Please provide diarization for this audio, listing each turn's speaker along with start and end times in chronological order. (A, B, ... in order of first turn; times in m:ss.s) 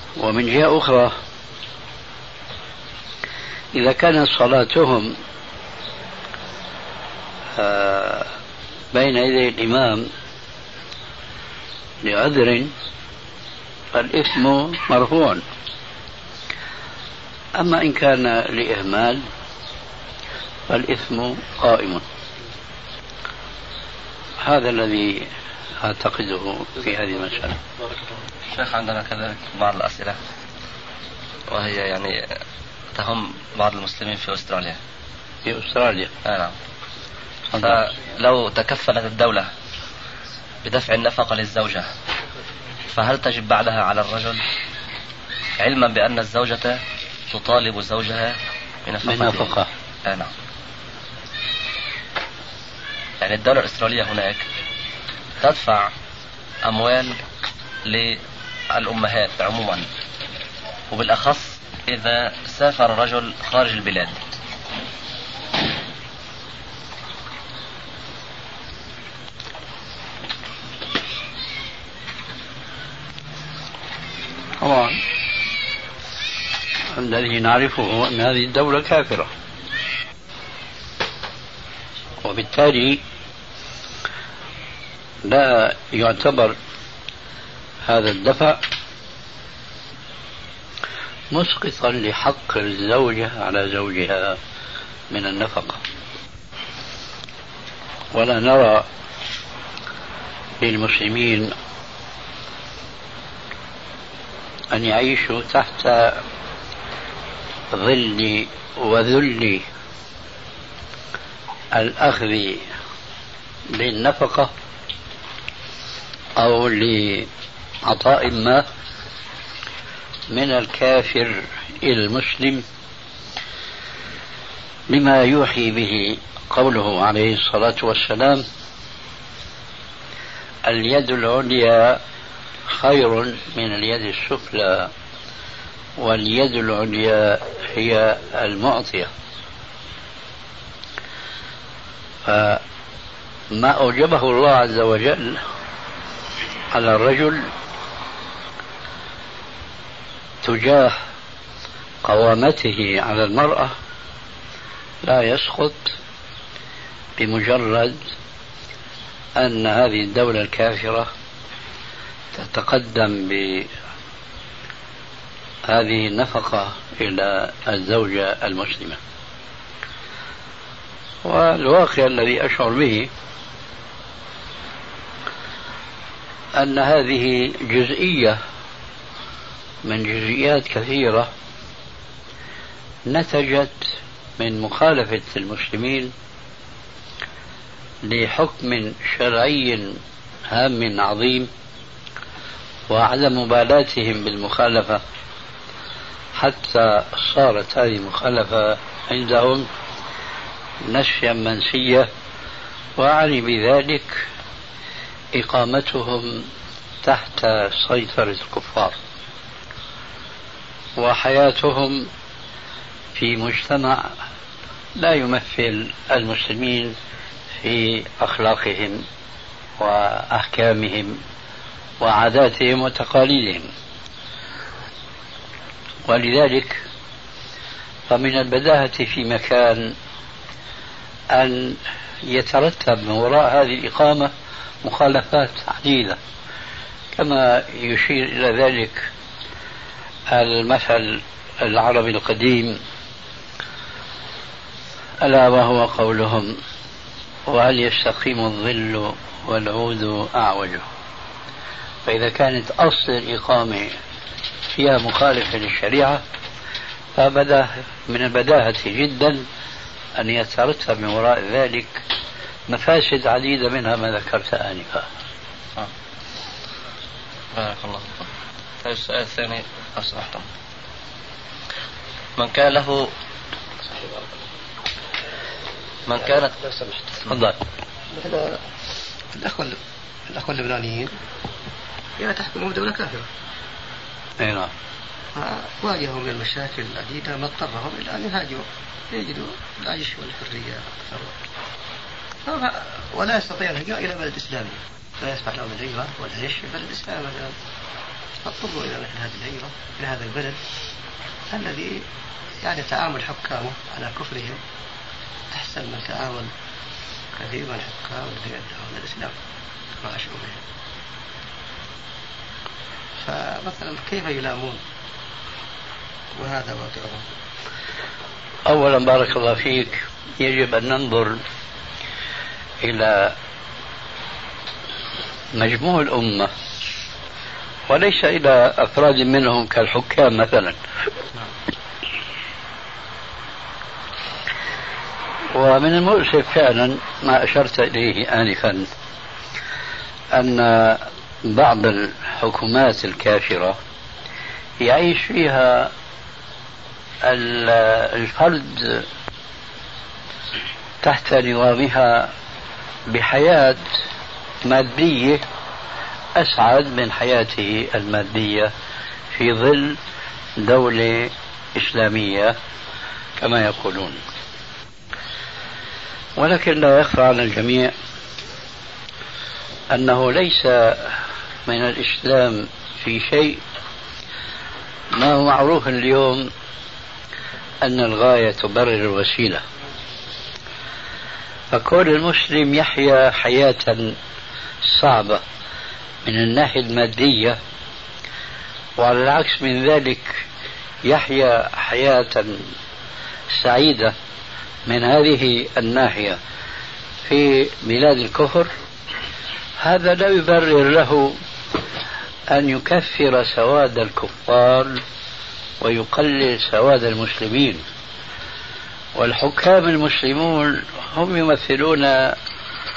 0:00.2-0:01.1 A
0:03.7-0:05.1 A
0:07.6-0:08.3 A
0:08.9-0:10.1 A
0:12.0-0:12.7 A
0:13.9-0:15.4 A
0:17.6-0:19.3 A
0:20.7-0:22.0 A
0:24.4-0:25.3 A
0:25.8-0:27.6 A
0:28.5-0:30.2 B
0:31.5-0:32.3 B
0:33.0-0:34.8 B
0:35.5-0:36.1 A
0:36.2-0:36.5 B
0:37.5-0:37.8 A
0:37.6-0:39.5 B
0:40.6-0:41.9 B
0:42.9-0:44.4 B
0:45.6-0:49.5 B
0:49.0-0:49.7 A
0:53.2-0:54.4 B
0:55.4-0:55.9 B
0:56.6-0:57.2 B
0:57.9-0:58.2 B
0:58.7-0:59.9 B
1:00.9-1:04.2 B
1:14.6-1:15.0 A
1:17.0-1:19.3 A
1:22.2-1:23.0 A
1:25.2-1:26.6 A
1:27.9-1:28.6 A
1:31.3-1:34.4 A
1:35.1-1:35.8 A
1:38.2-1:38.9 A
1:40.6-1:41.5 A
1:44.7-1:46.2 A
1:47.7-1:49.6 A
1:51.7-1:52.7 A
1:53.7-1:54.5 A
1:56.4-1:57.3 A
1:57.8-1:58.6 A
2:00.3-2:02.6 A
2:04.9-2:08.4 A
2:10.6-2:12.0 A
2:12.7-2:14.9 A
2:16.0-2:19.1 A
2:22.3-2:22.6 A
2:23.6-2:25.4 A
2:26.7-2:27.5 A
2:30.4-2:31.0 A
2:32.0-2:33.7 A
2:35.0-2:36.0 A
2:37.2-2:38.1 A
2:39.4-2:41.1 A
2:42.3-2:43.7 A
2:45.7-2:49.0 A
2:51.2-2:53.1 A
2:56.6-2:58.4 A
2:59.8-3:01.3 A
3:03.1-3:06.1 A
3:08.0-3:10.0 A
3:10.5-3:11.5 A
3:12.9-3:15.0 A
3:16.4-3:19.7 A
3:20.8-3:22.1 A
3:23.0-3:24.2 A
3:25.3-3:26.5 A
3:27.0-3:29.0 A
3:31.0-3:32.1 A
3:33.2-3:34.1 A
3:35.0-3:37.0 A
3:37.6-3:39.0 A
3:39.8-3:41.2 A
3:42.0-3:43.7 A
3:46.1-3:46.8 A
3:48.1-3:50.0 A
3:51.3-3:54.3 A
3:54.8-3:56.2 A
3:57.2-3:59.1 A
4:00.3-4:02.8 A
4:05.2-4:06.6 A
4:07.5-4:10.9 A
4:12.1-4:13.9 A
4:14.7-4:16.2 A
4:17.2-4:19.4 A
4:20.2-4:22.0 A
4:22.7-4:25.1 A
4:27.5-4:28.3 B
4:28.8-4:30.4 B
4:32.4-4:33.1 B
4:36.1-4:36.6 B
4:36.2-4:36.8 C
4:37.3-4:37.6 A
4:38.2-4:38.6 C
4:39.3-4:41.1 C
4:42.2-4:43.3 C
4:44.4-4:44.7 A
4:45.3-4:51.3 C
4:52.4-4:57.6 C
4:58.4-5:00.6 C
5:01.5-5:02.0 C
5:02.6-5:04.6 C
5:05.5-5:06.5 C
5:07.4-5:09.4 C
5:10.0-5:10.6 C
5:13.2-5:14.8 C
5:16.4-5:17.2 C
5:18.7-5:21.4 A
5:22.8-5:23.4 A
5:25.6-5:26.5 A
5:27.9-5:30.8 A
5:35.5-5:38.9 A
5:40.3-5:43.8 A
5:44.8-5:45.9 A
5:47.2-5:49.1 A
5:51.0-5:52.3 A
5:53.1-5:53.8 A
5:54.7-5:55.4 A
5:56.4-5:58.7 A
5:59.3-6:00.0 A
6:00.6-6:02.6 A
6:03.4-6:04.2 A
6:06.4-6:07.9 A
6:09.9-6:13.6 A
6:15.1-6:16.5 A
6:17.8-6:19.6 A
6:21.7-6:24.2 A
6:24.9-6:25.4 A
6:26.2-6:27.6 A
6:29.0-6:30.4 A
6:31.1-6:32.6 A
6:33.5-6:34.1 A
6:34.9-6:36.4 A
6:37.3-6:38.7 A
6:39.8-6:41.4 A
6:42.5-6:45.0 A
6:45.8-6:47.8 A
6:49.2-6:52.4 A